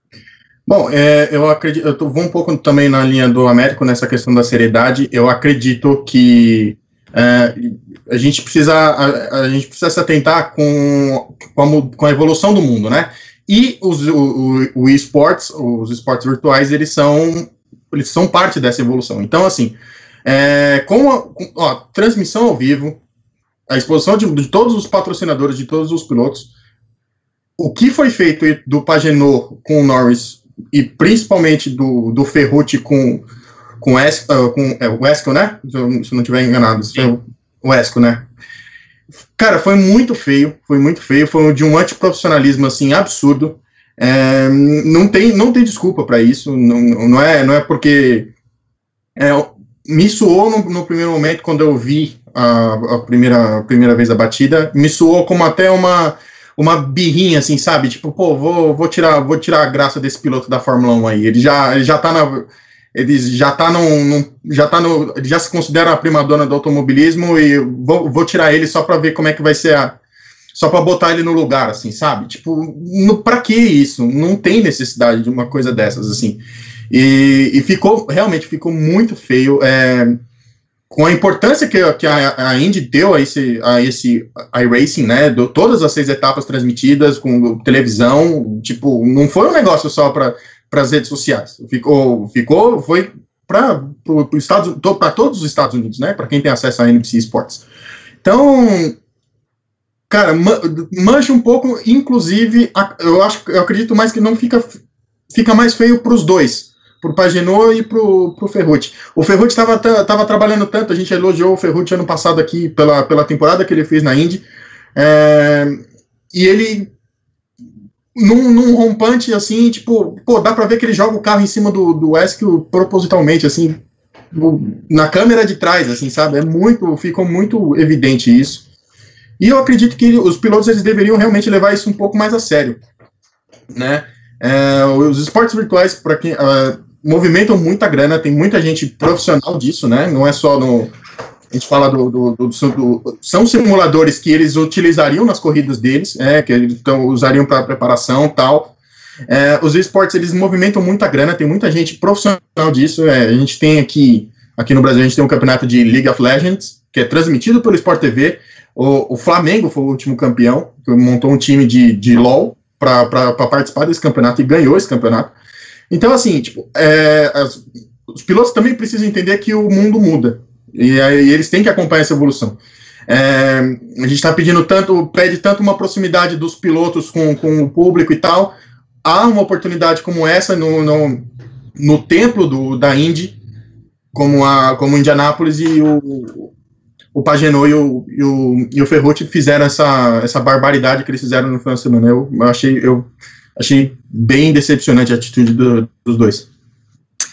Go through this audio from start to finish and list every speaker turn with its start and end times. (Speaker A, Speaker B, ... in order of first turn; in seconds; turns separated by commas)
Speaker A: 0.7-23.0, Speaker A: 23.7-26.5, Speaker A: 27.6-33.3, Speaker A: 33.8-38.3, Speaker A: 39.4-48.3, Speaker A: 49.2-70.0, Speaker A: 70.5-80.2, Speaker A: 80.9-97.6, Speaker A: 98.2-99.0, Speaker A: 100.1-104.8, Speaker A: 105.3-114.4, Speaker A: 115.0-115.8, Speaker A: 116.3-116.9, Speaker A: 118.2-123.8, Speaker A: 124.3-128.7, Speaker A: 129.4-132.8, Speaker A: 133.7-140.9, Speaker A: 141.5-148.7, Speaker A: 149.3-165.3, Speaker A: 165.9-172.6, Speaker A: 173.1-181.2, Speaker A: 181.8-183.4, Speaker A: 184.1-186.5, Speaker A: 187.1-196.5